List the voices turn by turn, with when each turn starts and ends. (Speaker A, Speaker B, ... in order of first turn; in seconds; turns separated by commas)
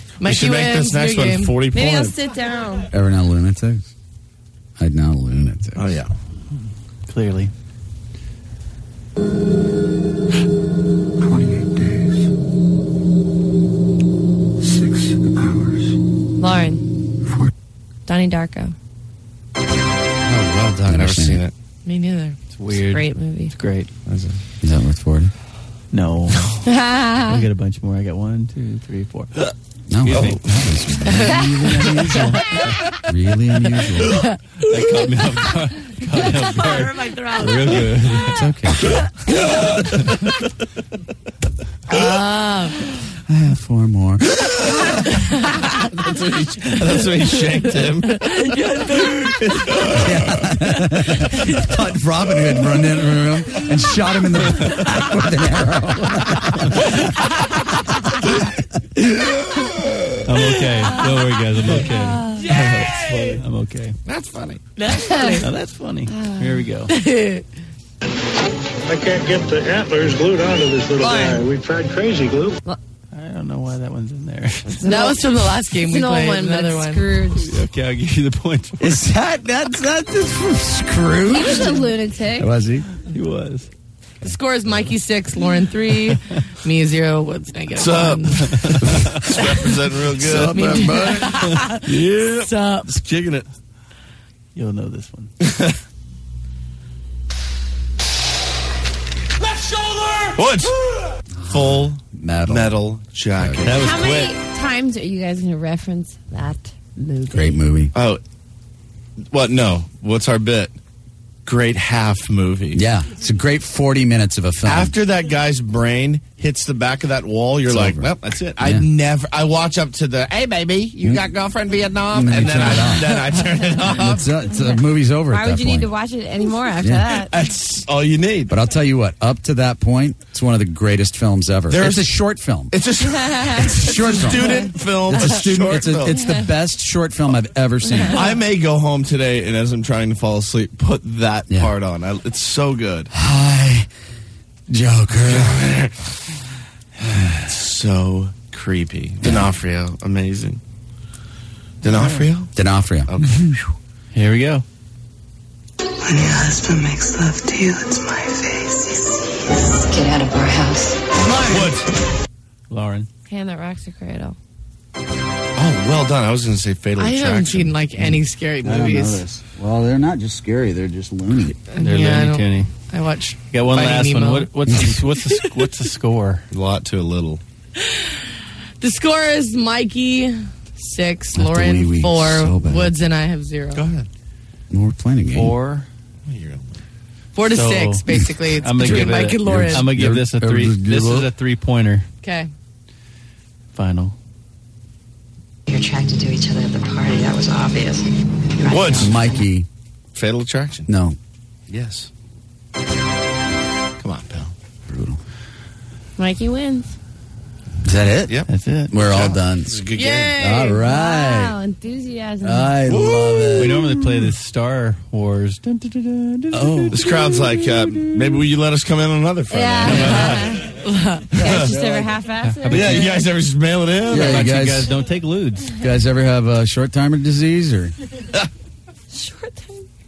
Speaker A: 0.2-1.6, Speaker B: 0.2-2.2, Speaker C: 1.7-2.9, Speaker D: 2.9-3.9, Speaker D: 4.8-6.0, Speaker B: 5.8-6.1, Speaker E: 7.0-7.5, Speaker C: 16.4-16.8, Speaker C: 18.1-18.7, Speaker B: 20.2-21.5, Speaker D: 20.9-21.4, Speaker A: 21.8-22.4, Speaker E: 22.5-23.9, Speaker C: 22.7-23.5, Speaker B: 24.1-24.4, Speaker D: 24.6-25.3, Speaker E: 25.9-26.5, Speaker B: 26.3-26.6, Speaker C: 26.6-27.4, Speaker E: 27.2-29.4, Speaker D: 29.9-34.2, Speaker E: 30.0-30.4, Speaker E: 34.7-38.4, Speaker A: 36.5-37.9, Speaker D: 38.3-39.0, Speaker A: 41.9-42.8, Speaker D: 43.3-44.3, Speaker B: 46.0-48.3, Speaker A: 48.3-49.0, Speaker B: 49.4-50.2, Speaker D: 49.9-57.0, Speaker E: 60.2-62.4, Speaker C: 62.0-62.4, Speaker A: 62.4-63.3, Speaker B: 62.5-63.4, Speaker E: 63.4-64.0, Speaker B: 64.0-64.6, Speaker A: 64.8-65.4, Speaker C: 65.1-65.4, Speaker E: 65.4-66.9, Speaker C: 66.1-66.6, Speaker A: 66.9-67.4, Speaker F: 68.9-72.5, Speaker G: 69.4-70.8, Speaker C: 71.0-71.4, Speaker G: 71.9-72.4, Speaker E: 73.1-74.9, Speaker C: 74.8-75.2, Speaker A: 74.8-77.1, Speaker C: 75.8-77.5, Speaker E: 77.4-79.0, Speaker D: 78.8-82.9, Speaker C: 81.2-82.5, Speaker E: 83.0-83.7, Speaker A: 84.2-88.5, Speaker B: 87.8-91.2, Speaker E: 88.5-88.8, Speaker A: 89.3-89.6, Speaker D: 90.2-91.4, Speaker A: 90.4-92.9, Speaker B: 91.8-93.5, Speaker E: 94.5-95.3, Speaker B: 95.4-95.8, Speaker G: 99.4-100.6, Speaker B: 100.3-100.8, Speaker D: 101.3-102.8, Speaker B: 101.5-103.8, Speaker D: 103.3-103.7, Speaker E: 103.6-104.3, Speaker C: 103.8-107.6, Speaker D: 107.3-107.9, Speaker B: 107.9-108.2, Speaker B: 109.3-110.7, Speaker B: 111.5-112.8, Speaker D: 112.7-114.9, Speaker B: 114.6-124.3, Speaker D: 117.7-118.9, Speaker D: 122.1-123.2, Speaker D: 123.9-125.9, Speaker C: 124.5-127.3, Speaker D: 126.8-127.2, Speaker B: 127.3-128.5, Speaker D: 128.5-132.8, Speaker B: 131.7-132.1, Speaker B: 132.7-136.2, Speaker D: 133.5-138.2, Speaker C: 134.4-134.7, Speaker C: 136.1-136.4, Speaker B: 138.1-143.1, Speaker D: 143.1-143.9, Speaker D: 144.7-145.7, Speaker B: 145.2-145.9, Speaker D: 147.1-147.3, Speaker B: 147.3-150.6, Speaker B: 151.8-152.5, Speaker E: 151.8-152.3, Speaker D: 152.6-153.1, Speaker B: 153.1-153.6, Speaker E: 154.1-154.6, Speaker H: 156.0-161.0, Speaker B: 161.3-161.9, Speaker E: 162.7-163.1, Speaker C: 163.3-164.4, Speaker B: 165.6-167.7, Speaker A: 167.0-169.2, Speaker D: 168.0-171.6, Speaker A: 171.7-174.5, Speaker E: 171.8-172.7, Speaker E: 173.5-176.4, Speaker D: 174.7-174.9, Speaker B: 176.5-177.4, Speaker A: 177.8-178.1, Speaker A: 178.8-183.9, Speaker D: 181.3-182.9, Speaker B: 183.7-184.1, Speaker D: 184.7-185.5, Speaker E: 185.3-185.9, Speaker B: 186.2-186.7, Speaker A: 187.3-189.9, Speaker E: 187.4-192.1, Speaker D: 188.8-191.3, Speaker A: 192.2-192.5, Speaker E: 193.7-194.1, Speaker H: 195.7-199.4, Speaker B: 198.6-199.1, Speaker D: 198.9-199.7, Speaker B: 200.1-200.9, Speaker D: 200.9-201.2, Speaker B: 201.7-202.1, Speaker B: 204.0-204.5, Speaker D: 204.9-205.2, Speaker C: 206.2-206.9, Speaker D: 207.8-208.4, Speaker B: 208.3-210.4, Speaker E: 208.5-208.9, Speaker D: 208.9-211.6, Speaker A: 209.9-210.8, Speaker C: 210.8-212.8, Speaker D: 212.4-213.8, Speaker B: 212.9-213.8, Speaker E: 213.6-217.0, Speaker D: 216.5-217.1, Speaker B: 216.9-220.6, Speaker C: 219.5-220.7, Speaker A: 220.7-221.5, Speaker B: 221.3-221.8, Speaker C: 221.4-223.3, Speaker D: 221.5-222.1, Speaker E: 222.4-223.2, Speaker B: 222.7-224.7, Speaker D: 224.1-224.9, Speaker E: 224.1-225.7, Speaker D: 225.8-227.9, Speaker C: 229.1-229.9